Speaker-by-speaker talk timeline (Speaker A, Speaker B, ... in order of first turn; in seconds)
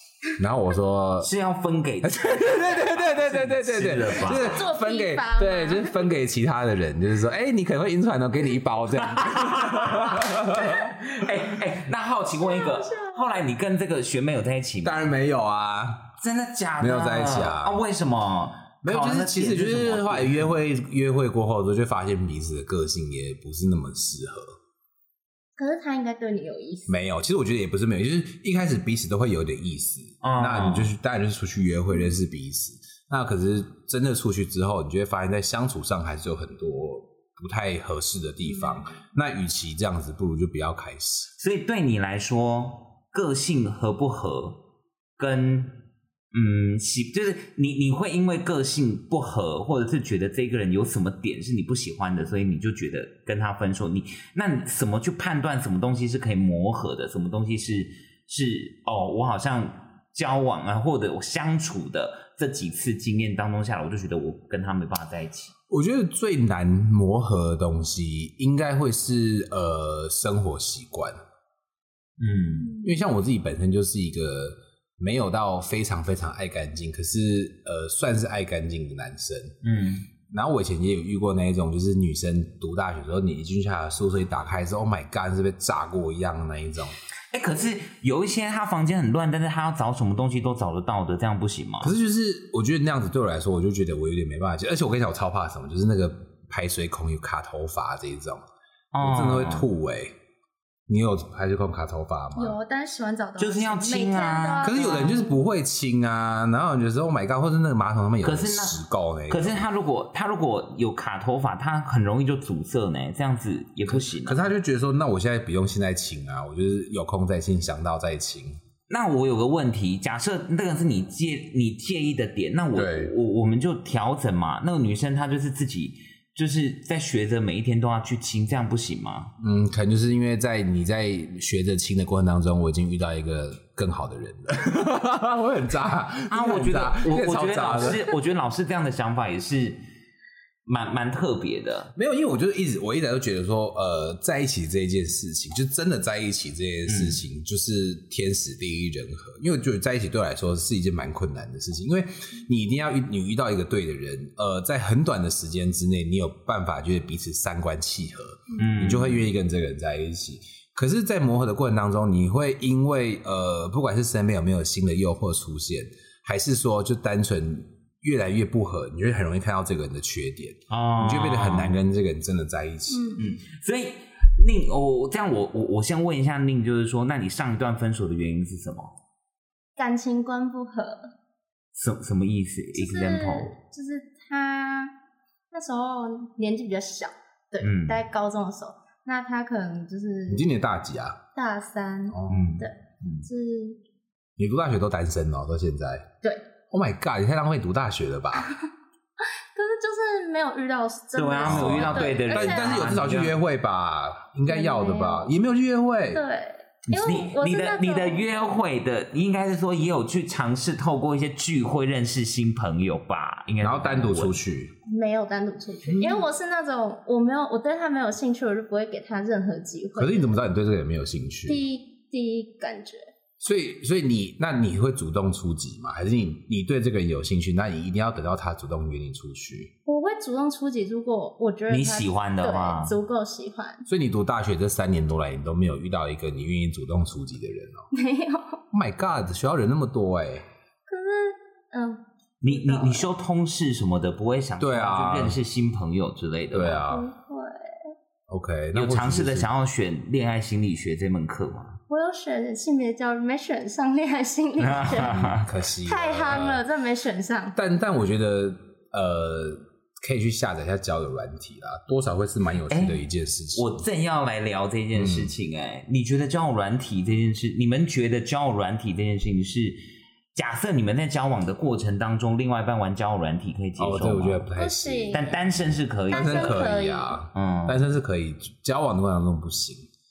Speaker A: 0.4-1.3, 2.0-10.9, 14.8-16.1, 16.8-17.8, 18.8-24.6, 26.9-41.3, 65.7-71.2, 72.8-79.5, 80.3-87.0, 91.8-98.4, 99.0-100.1, 100.9-102.6, 104.6-109.7, 113.9-118.6, 122.7-123.1, 129.4-138.1, 141.9-173.2, 190.3-191.2, 192.1-192.6, 194.4-196.1, 196.7-198.5, 201.4-206.2, 213.6-214.7, 215.8-216.2, 219.9-221.6, 223.4-229.7, 233.9-237.8, 238.7-240.4, 244.6-245.4, 246.5-247.1, 248.3-249.5, 254.8-256.6, 257.5-263.8, 264.9-265.3, 273.8-275.2, 276.1-279.9
Speaker B: 1.2-4.7, 9.0-15.1, 16.2-20.5, 30.2-30.9, 41.4-44.6, 45.2-45.8, 46.3-65.5, 72.2-72.8, 79.6-80.1, 87.3-91.9, 98.9-99.7, 103.4-105.2, 108.2-108.8, 109.3-114.4, 118.9-129.3, 136.3-139.8, 140.7-141.9, 146.9-147.2, 158.6-159.3, 170.7-171.8, 173.2-178.9, 181.7-183.5, 187.6-188.0, 192.3-193.3, 201.2-203.4, 206.9-214.4, 231.7-232.9, 242.4-246.8, 248.7-251.8, 254.6-255.5, 262.7-263.0, 263.5-269.8, 270.3-274.5, 275.1-276.7, 277.3-277.9
Speaker C: 4.2-6.0, 12.4-13.2, 25.6-26.9, 102.3-105.4, 172.9-173.2, 179.8-181.1, 182.7-184.9, 185.5-190.5, 191.3-193.8, 198.4-198.6, 199.2-202.9, 204.5-205.3, 206.1-208.2, 214.9-220.3, 221.4-223.0, 229.8-233.8, 237.9-238.6, 240.9-243.1, 246.9-247.7, 251.9-255.2, 255.8-257.6, 274.6-275.4, 276.1-277.2